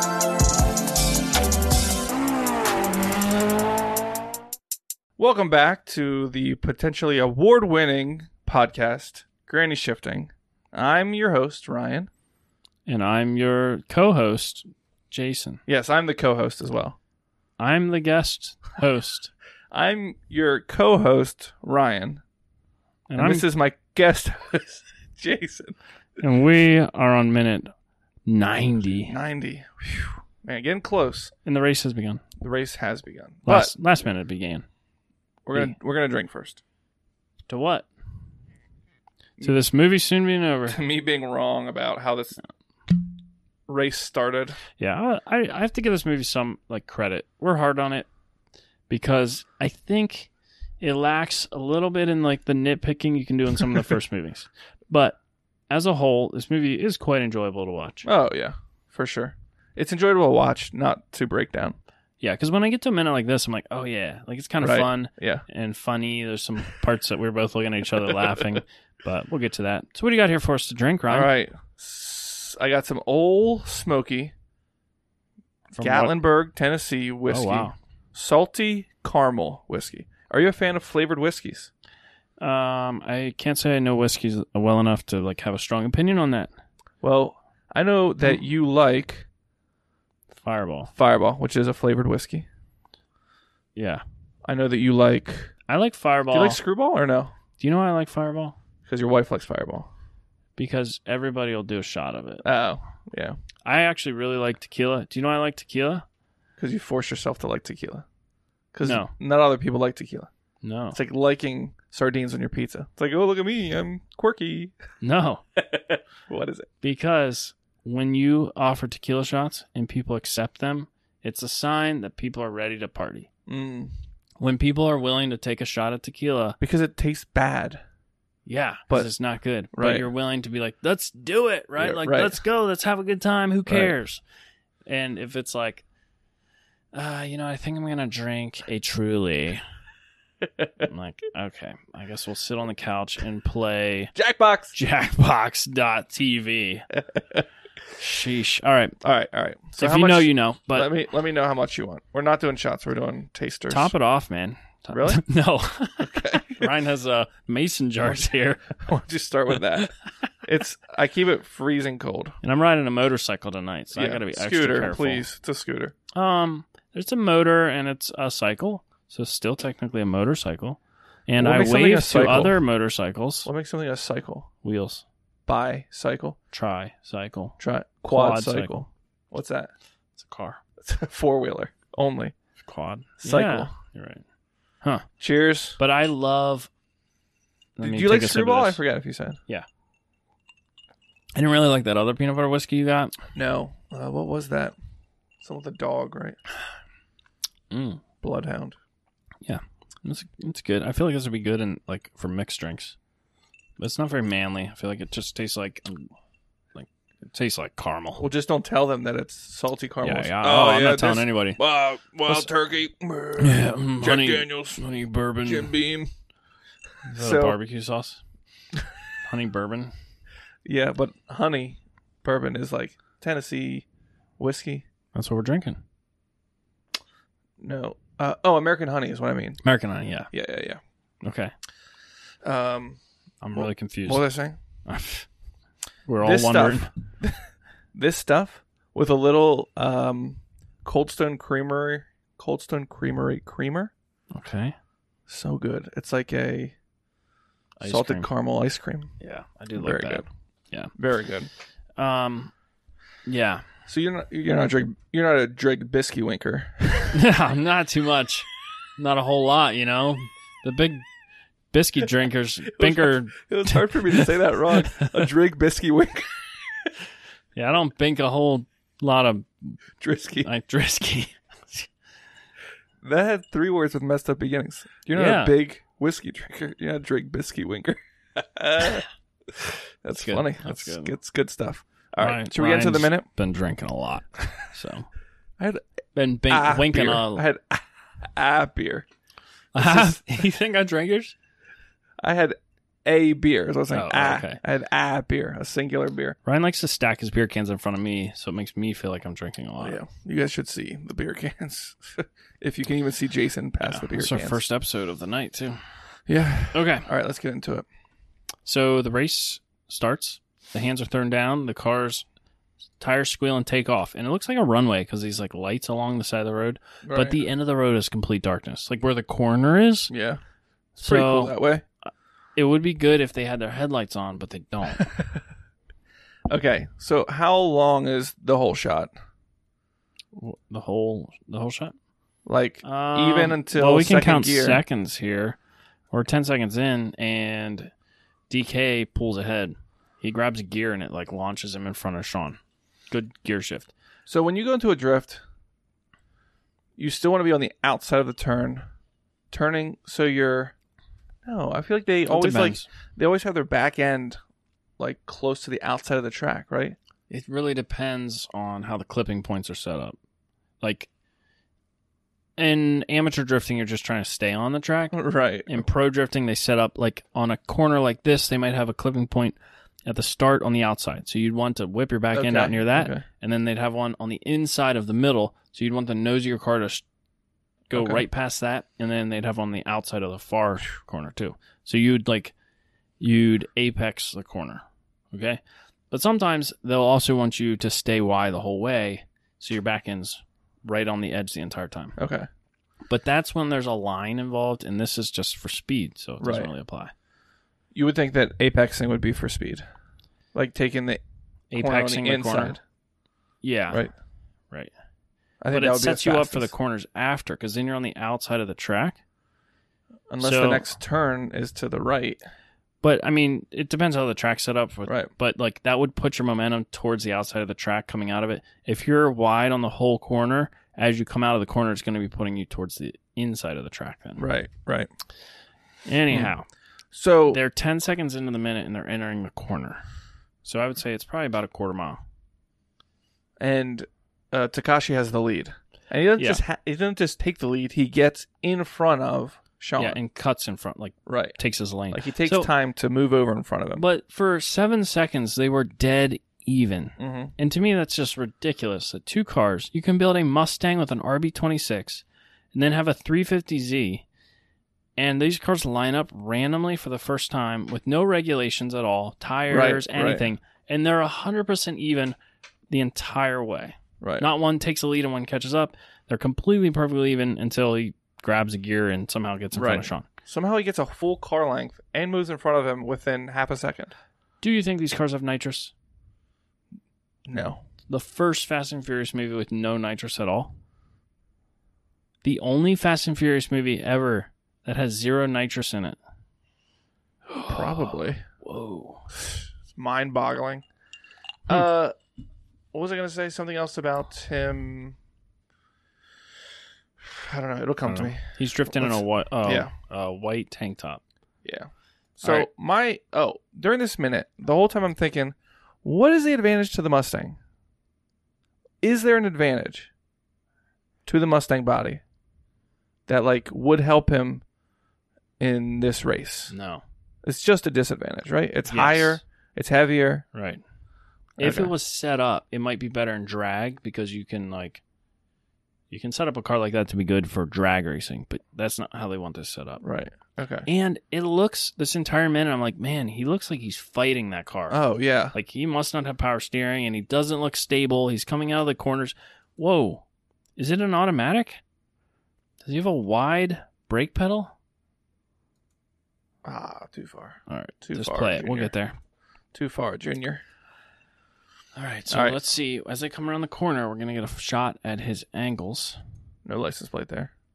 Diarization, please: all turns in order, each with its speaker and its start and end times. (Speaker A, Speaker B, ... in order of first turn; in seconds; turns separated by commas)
Speaker A: 5.2-12.1, Speaker B: 12.8-15.6, Speaker A: 15.7-17.0, Speaker B: 17.6-19.3, Speaker A: 19.7-22.2, Speaker B: 23.1-23.5, Speaker A: 23.1-25.7, Speaker B: 26.2-27.7, Speaker B: 28.2-29.2, Speaker A: 29.0-31.3, Speaker B: 31.4-32.2, Speaker A: 32.4-33.7, Speaker B: 33.5-34.6, Speaker A: 35.5-36.6, Speaker B: 37.5-37.9, Speaker B: 39.4-40.8, Speaker A: 40.7-42.4, Speaker A: 43.7-44.6, Speaker B: 44.8-48.1, Speaker B: 48.9-55.2, Speaker B: 55.7-58.1, Speaker A: 58.0-61.8, Speaker B: 62.2-71.3, Speaker A: 64.6-65.4, Speaker A: 71.1-74.3, Speaker B: 75.7-76.2, Speaker A: 75.8-81.7, Speaker B: 77.3-77.7, Speaker B: 82.4-86.5, Speaker A: 87.0-89.3, Speaker B: 90.4-90.9, Speaker A: 90.9-92.5, Speaker B: 93.7-94.0, Speaker A: 94.4-95.5, Speaker B: 95.7-96.6, Speaker A: 96.3-97.3, Speaker B: 97.6-98.5, Speaker A: 98.9-99.9, Speaker B: 100.5-102.5, Speaker A: 102.4-103.4, Speaker B: 103.6-106.0, Speaker A: 106.6-108.0, Speaker A: 108.7-110.3, Speaker B: 108.8-109.1, Speaker B: 110.6-111.0, Speaker A: 110.9-114.7, Speaker B: 115.0-115.4, Speaker A: 116.3-116.7, Speaker B: 116.8-123.3, Speaker A: 123.5-123.9, Speaker B: 124.4-126.6, Speaker A: 126.6-127.8, Speaker B: 128.4-134.2, Speaker A: 129.7-130.1, Speaker A: 131.8-132.4, Speaker A: 133.7-133.9, Speaker B: 134.8-135.8, Speaker B: 136.9-139.6, Speaker B: 140.8-144.1, Speaker A: 144.2-144.7, Speaker B: 144.7-146.8, Speaker B: 147.9-149.0, Speaker A: 149.0-153.9, Speaker B: 149.8-150.9, Speaker B: 153.7-158.8, Speaker A: 154.9-155.2, Speaker A: 156.0-156.7, Speaker A: 158.8-159.9, Speaker A: 160.4-162.3, Speaker B: 162.4-165.3, Speaker A: 163.9-165.9, Speaker B: 166.1-173.5, Speaker A: 171.4-172.6, Speaker A: 173.4-174.5, Speaker B: 174.6-175.0, Speaker A: 175.5-176.4, Speaker B: 176.5-178.8, Speaker A: 177.6-179.7, Speaker B: 180.2-180.6, Speaker A: 180.8-182.3, Speaker B: 182.6-184.2, Speaker A: 183.2-183.7, Speaker B: 184.8-185.1, Speaker A: 185.2-185.8, Speaker B: 185.8-186.7, Speaker B: 187.8-188.8, Speaker A: 187.8-189.4, Speaker B: 191.3-193.1, Speaker A: 193.3-194.8, Speaker A: 195.4-196.4, Speaker B: 197.7-198.0, Speaker A: 198.2-198.8, Speaker B: 199.4-202.9, Speaker B: 203.8-206.1, Speaker B: 206.7-208.3, Speaker A: 208.2-214.8, Speaker B: 210.0-211.6, Speaker B: 213.4-215.7, Speaker A: 215.4-216.1, Speaker B: 217.1-218.2, Speaker A: 217.1-217.6, Speaker B: 219.2-219.9, Speaker A: 220.6-223.8, Speaker A: 224.4-224.8, Speaker B: 225.1-225.8, Speaker A: 227.6-229.6, Speaker B: 229.6-230.3, Speaker A: 230.3-230.8, Speaker B: 231.2-231.5, Speaker A: 232.4-233.0, Speaker B: 233.4-234.3, Speaker A: 233.5-234.6, Speaker B: 234.8-235.3, Speaker B: 236.1-236.9, Speaker A: 236.2-237.4, Speaker A: 237.9-243.9, Speaker B: 244.3-244.7, Speaker A: 245.3-246.8, Speaker B: 247.8-248.3, Speaker A: 247.8-249.1, Speaker B: 249.2-250.9, Speaker A: 249.7-250.3, Speaker A: 251.0-251.5, Speaker B: 252.0-252.5, Speaker B: 253.2-253.6, Speaker A: 253.9-257.2, Speaker B: 257.1-261.0, Speaker B: 261.7-265.1, Speaker A: 262.7-266.3, Speaker B: 267.5-269.8, Speaker A: 270.0-270.5, Speaker B: 270.4-271.9, Speaker A: 273.0-279.0, Speaker B: 275.1-275.6, Speaker A: 280.0-283.2, Speaker B: 280.1-281.1, Speaker B: 282.2-285.1, Speaker B: 286.1-287.5, Speaker A: 286.5-289.1, Speaker B: 289.7-291.3, Speaker A: 289.8-290.3, Speaker A: 292.2-296.4, Speaker B: 293.9-294.6, Speaker B: 296.4-300.0, Speaker A: 299.8-304.6, Speaker B: 303.8-305.8, Speaker A: 306.3-307.9, Speaker B: 306.7-307.1, Speaker B: 308.6-312.2, Speaker B: 313.0-320.1, Speaker A: 317.0-317.4, Speaker A: 320.1-320.4, Speaker B: 321.0-321.6, Speaker A: 321.0-321.8, Speaker B: 322.6-325.1, Speaker A: 326.5-329.1, Speaker B: 330.3-331.9, Speaker A: 332.4-334.8, Speaker B: 332.8-335.6, Speaker B: 336.1-337.9, Speaker B: 338.5-342.6, Speaker B: 343.1-343.9, Speaker A: 344.3-345.4, Speaker A: 347.0-348.8, Speaker A: 349.5-350.7, Speaker A: 351.4-354.4, Speaker B: 352.2-352.9, Speaker A: 355.0-356.9, Speaker B: 357.3-360.1, Speaker B: 360.8-361.1, Speaker B: 362.6-377.0, Speaker A: 365.1-365.9, Speaker A: 372.3-373.2, Speaker B: 377.9-382.5, Speaker A: 377.9-378.2, Speaker B: 383.2-392.1, Speaker A: 392.2-392.5, Speaker B: 393.1-397.1, Speaker A: 396.4-396.7, Speaker A: 397.9-399.8, Speaker A: 400.5-401.2, Speaker B: 401.7-402.8, Speaker A: 401.7-402.8, Speaker B: 403.6-404.1, Speaker A: 405.6-406.7, Speaker B: 405.7-409.2, Speaker A: 410.3-412.4, Speaker B: 410.4-410.9, Speaker B: 413.0-424.5, Speaker A: 415.1-415.3, Speaker A: 424.4-425.1, Speaker B: 426.1-426.6, Speaker A: 426.3-426.5, Speaker A: 427.1-427.6, Speaker B: 427.5-430.0, Speaker B: 430.6-432.2, Speaker A: 433.6-440.2, Speaker B: 436.4-436.6, Speaker B: 440.0-442.7, Speaker A: 441.2-441.6, Speaker A: 442.1-444.0, Speaker B: 443.9-454.2, Speaker A: 447.2-447.5, Speaker B: 455.2-462.4, Speaker A: 459.7-460.5, Speaker B: 462.9-470.2, Speaker A: 464.2-464.5, Speaker A: 469.7-474.1, Speaker B: 474.6-475.9, Speaker A: 477.5-477.8, Speaker B: 478.1-480.7, Speaker B: 482.4-486.2, Speaker B: 487.5-489.2, Speaker A: 487.6-488.4, Speaker A: 489.9-490.8, Speaker A: 491.7-492.1, Speaker A: 492.9-495.2, Speaker A: 497.2-499.9, Speaker B: 498.1-501.2, Speaker A: 501.6-507.6, Speaker A: 509.0-510.1, Speaker A: 511.2-512.2, Speaker A: 513.3-514.6, Speaker A: 515.6-516.7, Speaker B: 516.7-517.0, Speaker A: 517.4-520.4, Speaker B: 518.9-519.4, Speaker B: 520.5-520.8, Speaker A: 521.6-521.9, Speaker B: 521.6-525.0, Speaker B: 526.1-530.0, Speaker A: 530.0-530.9, Speaker B: 530.9-540.2, Speaker A: 534.9-535.5, Speaker B: 540.8-541.8, Speaker B: 542.8-544.7, Speaker A: 546.6-548.9, Speaker B: 547.7-549.1, Speaker A: 549.7-550.6, Speaker B: 552.0-556.2, Speaker A: 552.3-552.6, Speaker A: 556.6-557.5